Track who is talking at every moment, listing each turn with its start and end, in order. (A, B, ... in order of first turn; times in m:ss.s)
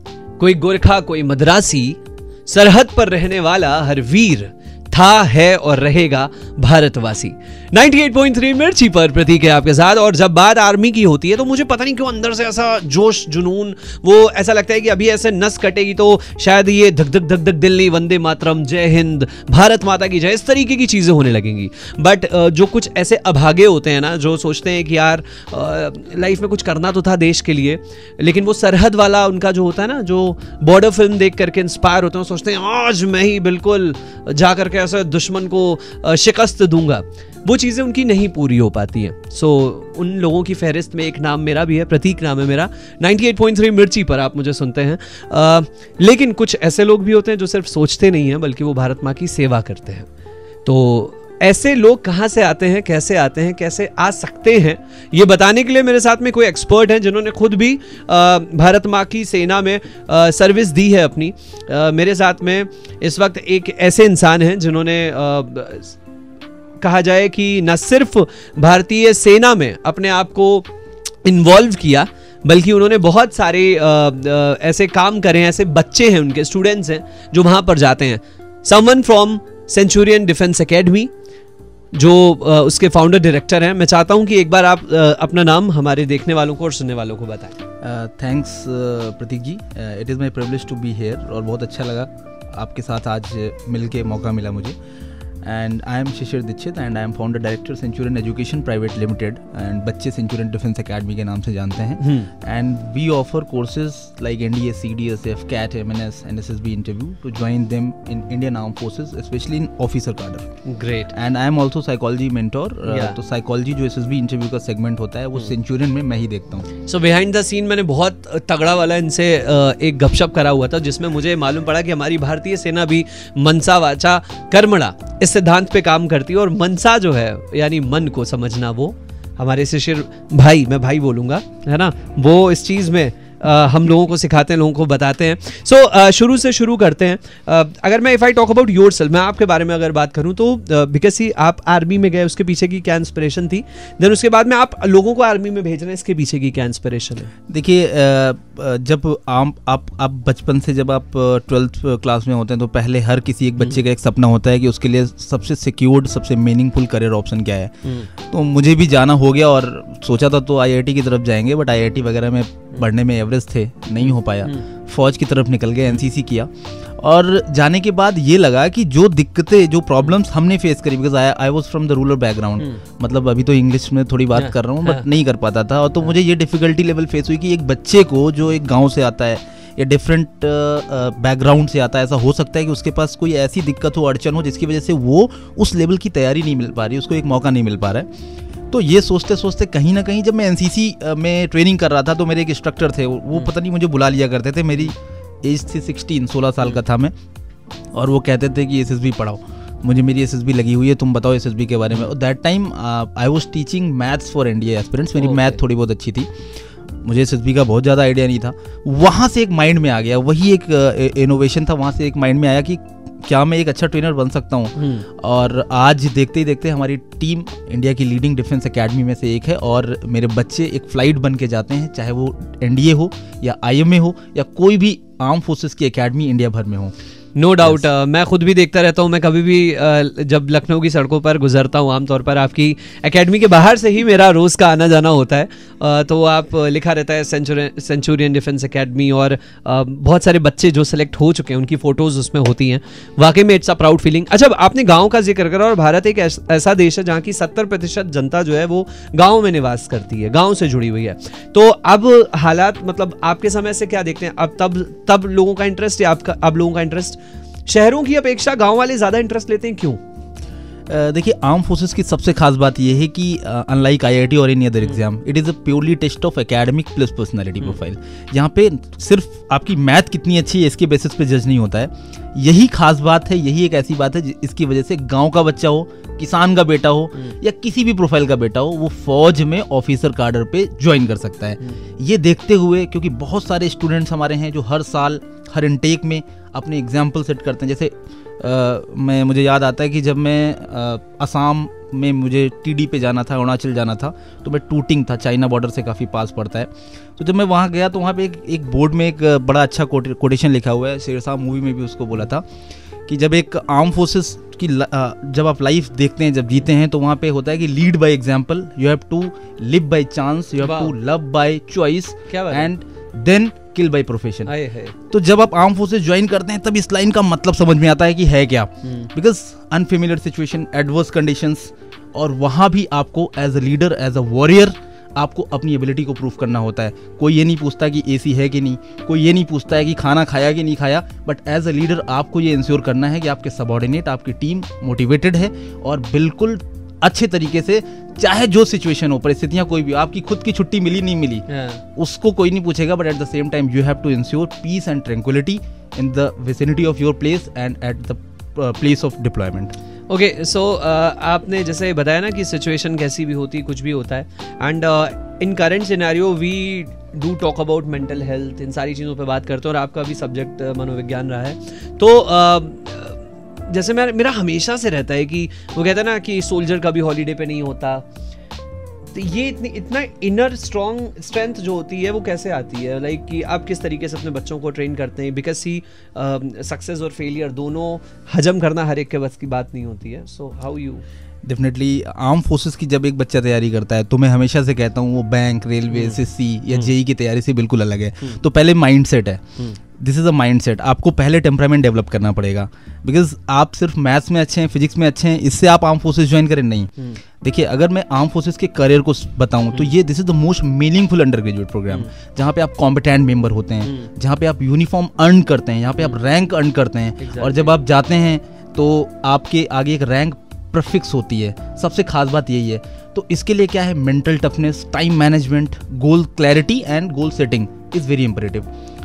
0:00.4-0:50.1 A
0:50.6-1:06.0 A
1:06.8-1:10.7 A
1:11.2-1:21.1 A
1:21.9-1:27.6 A
1:27.8-1:34.8 B
1:35.4-1:50.4 B
1:42.0-1:42.3 A
1:50.7-1:51.1 A
1:51.1-1:56.7 B
1:52.8-1:53.2 A
1:56.9-2:27.3 A
2:27.5-2:37.7 B
2:37.8-2:38.1 A
2:38.3-3:08.1 B
2:44.0-2:44.6 A
2:54.4-2:55.1 A
3:08.7-3:17.1 B
3:17.9-3:26.3 B
3:25.2-3:25.6 A
3:27.0-3:47.0 B
3:34.8-3:35.1 A
3:47.4-4:20.0 A
4:20.9-5:02.4 B
5:03.1-5:14.5 B
5:10.6-5:10.9 A
5:12.3-5:12.7 A
5:14.4-5:15.0 A
5:15.1-5:49.7 B
5:18.8-5:19.1 A
5:41.5-5:41.8 A
5:50.1-6:08.0 A
6:09.1-6:21.0 A
6:21.4-6:29.4 B
6:25.9-6:26.9 A
6:30.0-6:36.9 B
6:37.4-6:58.7 B
6:43.8-6:44.1 A
6:47.2-6:47.8 A